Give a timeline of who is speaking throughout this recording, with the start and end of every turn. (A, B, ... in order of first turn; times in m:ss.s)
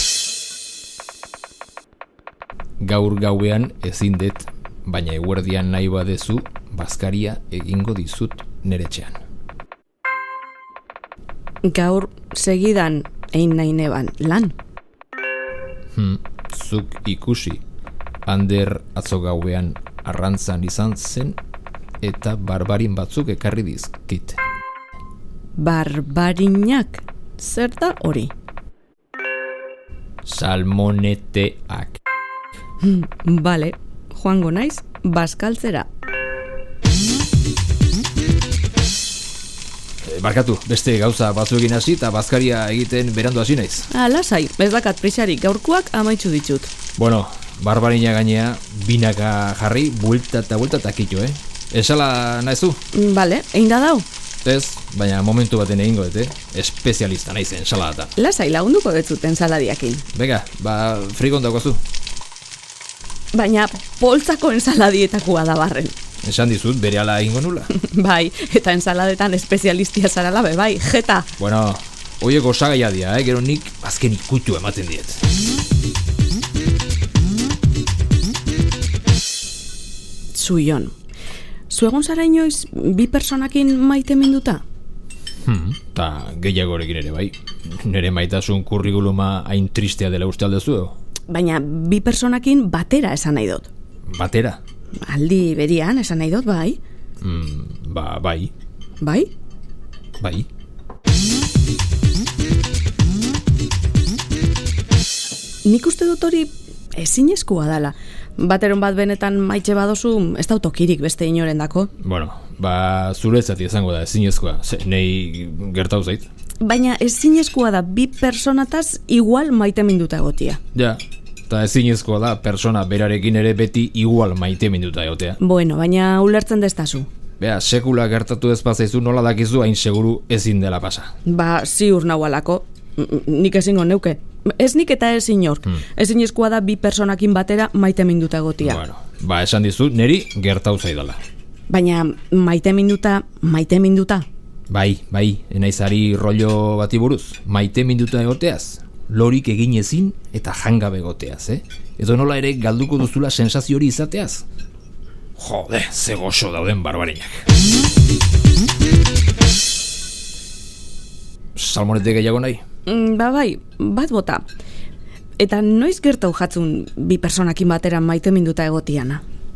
0:02.8-0:09.2 A
0:11.6-0:14.5 B
0:15.9-0:17.6 A
0:18.2-0:21.4 A
0:22.0-0:24.4 A
0:25.6-0:28.3 B
0:30.2-0:32.0 A
0:32.8-0:35.9 B
0:40.0-0:43.9 A
0:43.9-0:46.7 B
0:47.0-0:52.8 A
0:52.9-0:54.0 B
0:54.4-0:58.1 A
0:58.2-1:00.0 B
1:00.1-1:01.8 A
1:03.3-1:06.0 B
1:06.2-1:07.7 A
1:07.7-1:11.3 B
1:11.4-1:15.2 A
1:20.3-1:20.9 B
1:21.7-1:24.6 B
1:25.4-1:30.9 A
1:31.3-1:33.7 B
1:34.1-1:34.6 A
1:35.0-1:36.8 B
1:37.2-1:38.5 A
1:39.0-1:39.3 B
1:40.2-1:40.5 A
1:45.6-1:51.9 B
1:52.0-1:56.2 A
1:56.6-2:00.6 B
2:00.7-2:05.4 A
2:05.4-2:07.1 B
2:07.4-2:11.1 A
2:11.2-2:18.8 B
2:18.6-2:21.2 A
2:21.7-2:24.2 B
2:24.7-2:34.4 A
2:35.4-2:37.4 A
2:41.5-2:42.6 A
2:42.8-2:44.5 B
2:45.4-2:49.2 B